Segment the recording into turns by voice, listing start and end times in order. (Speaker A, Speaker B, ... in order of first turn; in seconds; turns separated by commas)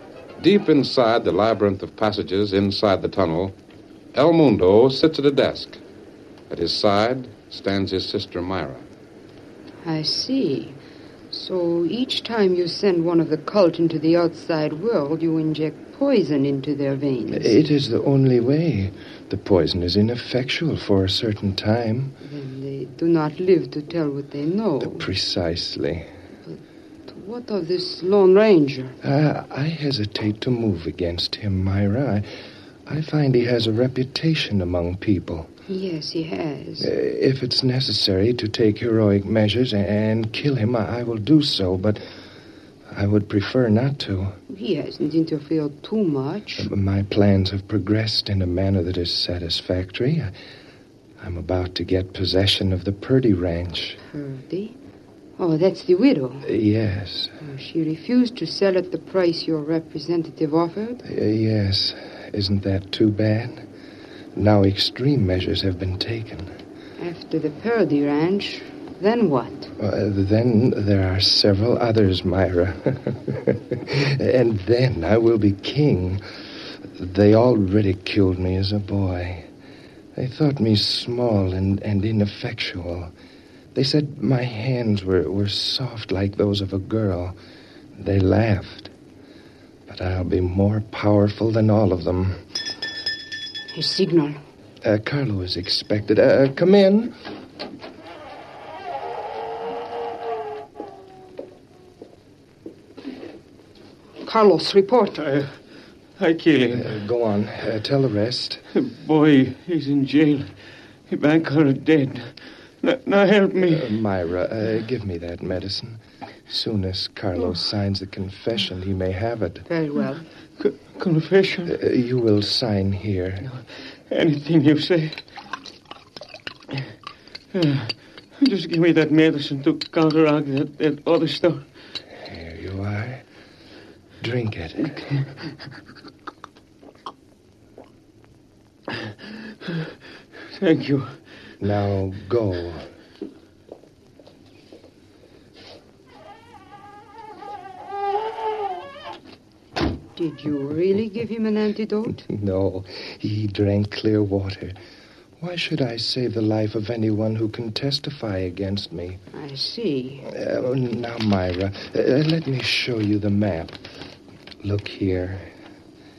Speaker A: 0.4-3.5, Speaker A: 4.1-5.8, Speaker A: 6.5-8.8, Speaker B: 9.8-10.8, Speaker B: 11.3-17.6, Speaker C: 17.3-22.1, Speaker B: 22.2-25.1, Speaker C: 24.8-26.1, Speaker B: 26.5-29.0, Speaker C: 29.0-32.3, Speaker C: 32.9-35.5, Speaker B: 35.7-36.9, Speaker C: 36.8-42.0, Speaker C: 42.9-44.4, Speaker B: 44.5-46.7, Speaker C: 46.6-50.3, Speaker C: 51.2-54.0, Speaker B: 54.0-54.8, Speaker B: 55.4-56.5, Speaker C: 56.4-57.4, Speaker B: 57.4-61.0, Speaker C: 61.0-63.7, Speaker C: 64.3-66.5, Speaker B: 67.0-69.7, Speaker C: 69.8-76.2, Speaker C: 77.0-79.5, Speaker C: 80.2-83.1, Speaker C: 83.8-87.4, Speaker C: 88.0-88.9, Speaker C: 89.9-92.4, Speaker B: 93.7-94.4, Speaker C: 94.8-97.2, Speaker B: 104.2-105.2, Speaker D: 105.2-105.5, Speaker D: 106.2-107.0, Speaker C: 106.7-108.6, Speaker D: 108.7-110.5, Speaker D: 111.1-113.9, Speaker C: 113.6-119.7, Speaker B: 119.7-120.3, Speaker D: 120.6-121.8, Speaker C: 121.7-123.5, Speaker D: 123.4-125.2, Speaker D: 127.5-131.7, Speaker C: 132.2-133.2, Speaker C: 134.2-135.0, Speaker D: 140.6-141.2, Speaker C: 141.6-142.9, Speaker B: 150.2-152.2, Speaker C: 152.2-154.8, Speaker C: 155.4-159.2, Speaker B: 159.3-160.3, Speaker C: 160.2-163.8, Speaker C: 164.6-165.5